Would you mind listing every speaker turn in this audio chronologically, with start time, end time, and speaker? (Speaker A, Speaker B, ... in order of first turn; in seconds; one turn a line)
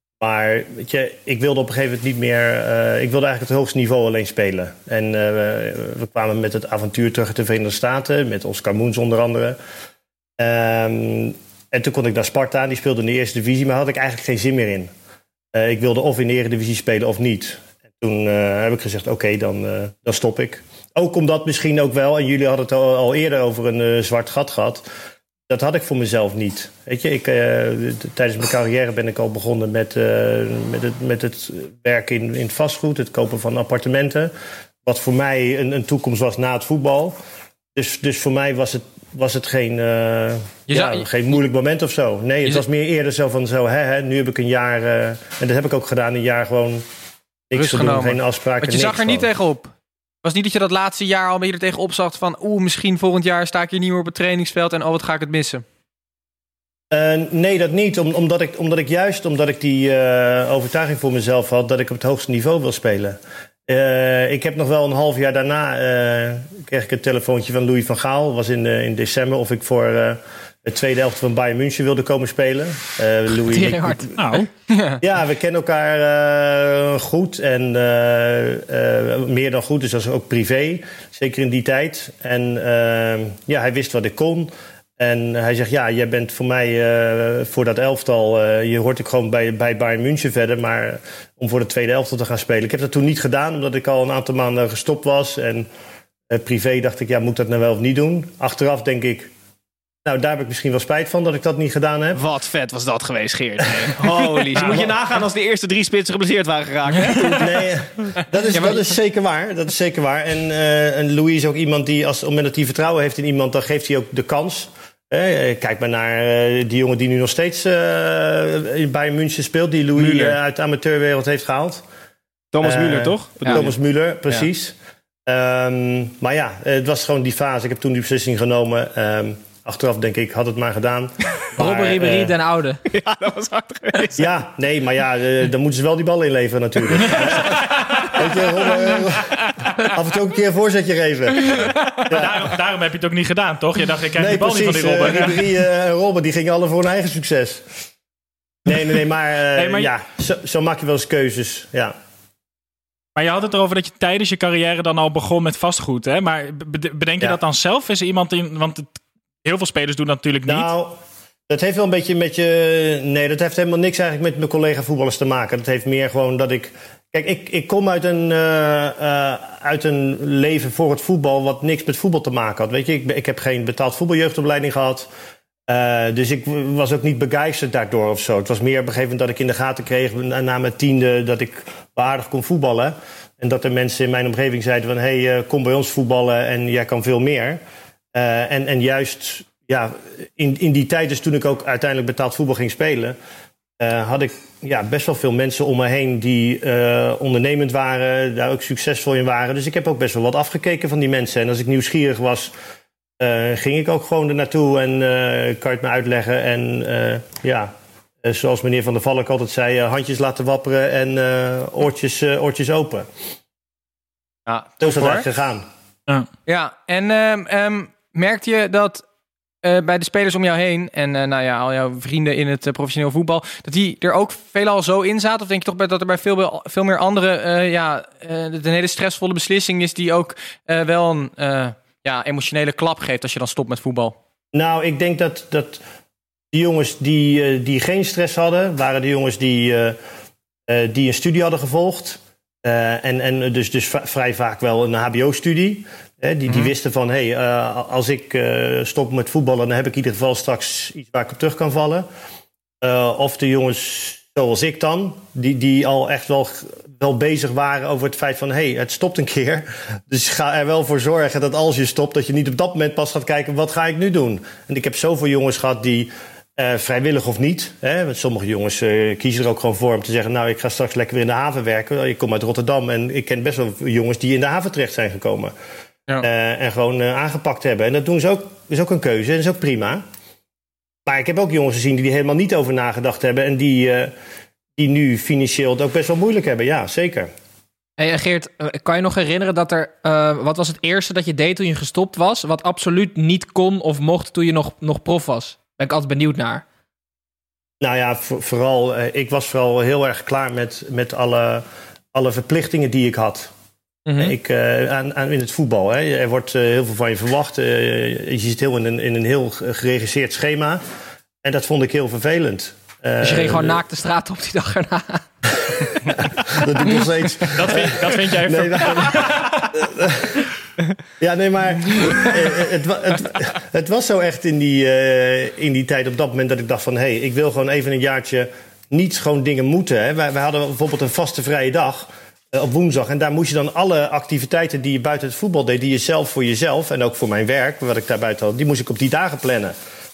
Speaker A: 0.2-9.6
Speaker A: 10.4-14.9
Speaker A: 15.5-24.9
Speaker A: 25.5-34.3
Speaker A: 34.9-37.2
Speaker A: 37.8-46.9
Speaker B: 40.7-41.1
Speaker A: 47.5-49.3
Speaker B: 47.5-49.7
Speaker B: 50.2-55.6
Speaker A: 56.9-74.4
Speaker C: 73.4-74.1
Speaker D: 74.2-74.5
Speaker B: 74.7-75.0
Speaker A: 75.0-95.7
Speaker A: 96.3-99.3
Speaker A: 100.0-102.2
Speaker E: 102.2-107.6
Speaker D: 104.6-104.8
Speaker A: 107.4-121.8
Speaker E: 120.0-120.4
Speaker E: 122.5-123.7
Speaker A: 122.6-124.8
Speaker A: 125.3-132.3
Speaker C: 131.6-132.8
Speaker E: 132.9-134.2
Speaker A: 134.2-139.4
Speaker D: 137.2-138.2
Speaker A: 139.9-142.3
Speaker B: 141.4-142.1
Speaker D: 142.1-145.5
Speaker A: 144.2-147.7
Speaker A: 148.7-152.0
Speaker D: 149.6-149.9
Speaker D: 153.2-158.9
Speaker D: 159.4-160.7
Speaker A: 160.5-161.0
Speaker A: 161.5-175.1
Speaker A: 175.7-187.6
Speaker A: 188.1-193.2
Speaker A: 193.8-202.5
Speaker A: 203.2-207.7
Speaker A: 208.2-213.1
Speaker B: 214.5-215.3
Speaker A: 214.8-215.7
Speaker B: 216.5-219.0
Speaker B: 219.6-234.2
Speaker A: 234.5-235.8
Speaker A: 236.5-240.0
Speaker A: 240.7-252.1
Speaker B: 246.5-246.7
Speaker A: 252.8-275.5
Speaker A: 276.2-280.0
Speaker A: 281.1-284.1
Speaker A: 284.8-287.3
Speaker C: 288.0-296.6
Speaker A: 297.8-303.5
Speaker C: 304.1-304.4
Speaker A: 304.2-310.8
Speaker A: 311.4-313.8
Speaker C: 313.2-315.2
Speaker A: 315.6-320.5
Speaker D: 317.5-319.7
Speaker A: 321.2-339.8